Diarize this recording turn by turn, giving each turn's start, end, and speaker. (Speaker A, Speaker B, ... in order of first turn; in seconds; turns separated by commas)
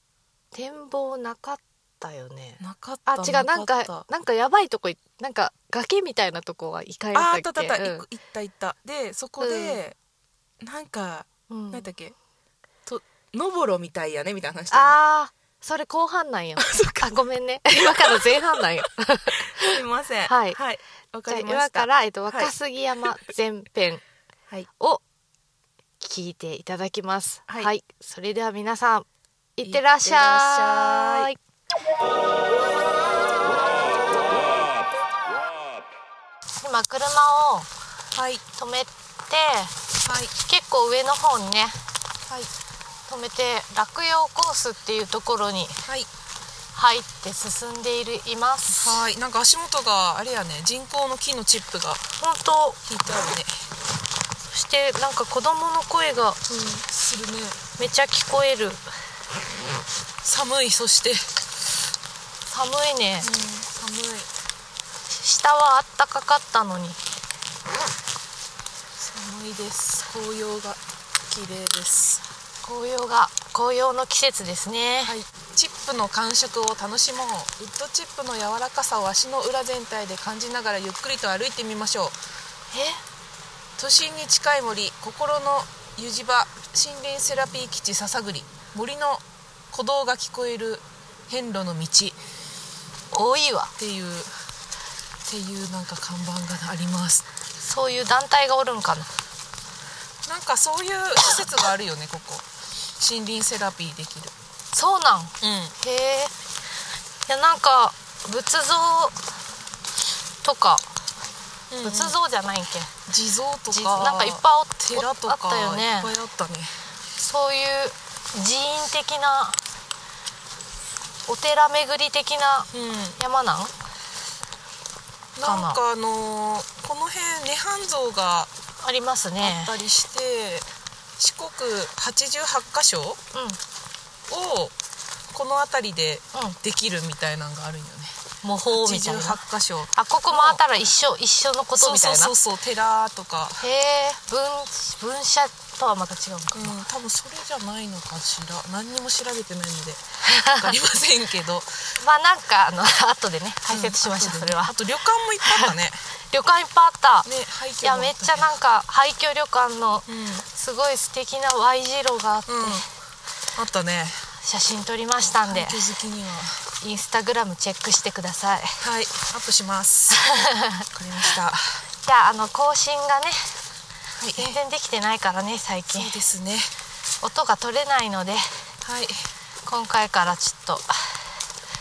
Speaker A: 0.5-8.0, Speaker B: 2.6-4.0, Speaker B: 7.1-10.0, Speaker A: 9.4-9.8, Speaker B: 10.6-12.2, Speaker A: 11.5-11.9, Speaker B: 12.9-15.0, Speaker A: 14.7-20.6, Speaker B: 16.6-17.2, Speaker B: 17.7-18.7, Speaker B: 19.4-22.5, Speaker A: 21.3-24.0, Speaker A: 26.0-31.4, Speaker B: 29.6-31.3, Speaker A: 36.5-37.7, Speaker B: 38.1-38.4, Speaker A: 38.6-39.7, Speaker B: 40.0-40.3, Speaker A: 40.5-41.8, Speaker A: 43.1-45.8, Speaker A: 46.7-49.0, Speaker B: 48.8-52.0, Speaker A: 52.2-52.8, Speaker B: 52.9-53.5, Speaker A: 54.5-56.4, Speaker B: 56.5-57.6, Speaker A: 57.8-58.8, Speaker B: 60.2-61.3, Speaker A: 62.5-63.3, Speaker B: 63.2-64.3, Speaker A: 65.1-67.0, Speaker B: 69.0-72.2, Speaker A: 72.6-75.1, Speaker B: 75.0-82.2, Speaker A: 82.7-83.0, Speaker B: 83.8-92.2, Speaker A: 93.1-93.7, Speaker B: 93.8-94.3, Speaker B: 95.2-97.3, Speaker A: 97.6-99.1, Speaker B: 100.3-102.5, Speaker B: 103.0-104.3, Speaker A: 104.7-106.3, Speaker B: 105.4-105.8, Speaker A: 107.3-109.2, Speaker A: 110.4-110.9, Speaker B: 111.7-112.2, Speaker A: 111.8-112.9, Speaker B: 113.1-116.8, Speaker A: 113.7-116.1, Speaker A: 117.2-119.6, Speaker A: 121.3-123.7, Speaker B: 122.7-123.2, Speaker B: 125.4-128.5, Speaker A: 125.4-125.8, Speaker A: 128.8-129.7, Speaker B: 129.4-130.7, Speaker B: 131.2-133.2, Speaker A: 133.3-133.6, Speaker B: 134.3-134.8, Speaker B: 135.3-138.2, Speaker A: 138.4-139.4, Speaker B: 138.7-140.6, Speaker A: 139.9-142.3, Speaker B: 141.8-143.7, Speaker A: 143.6-146.8, Speaker B: 146.5-151.8, Speaker A: 150.2-150.7, Speaker A: 152.0-154.7, Speaker B: 153.7-156.0, Speaker A: 155.4-155.7, Speaker A: 156.3-157.3, Speaker B: 157.2-158.5, Speaker A: 157.8-162.8, Speaker B: 160.1-160.4, Speaker B: 162.5-162.8, Speaker B: 163.6-164.3, Speaker A: 164.4-165.8, Speaker B: 165.4-166.6, Speaker A: 166.8-168.8, Speaker B: 168.8-170.2, Speaker A: 170.1-170.9, Speaker B: 170.9-171.8, Speaker A: 172.1-173.5, Speaker B: 174.2-174.6, Speaker A: 174.4-176.1, Speaker B: 175.9-176.7, Speaker A: 177.2-178.6, Speaker B: 178.8-179.2, Speaker A: 179.7-181.0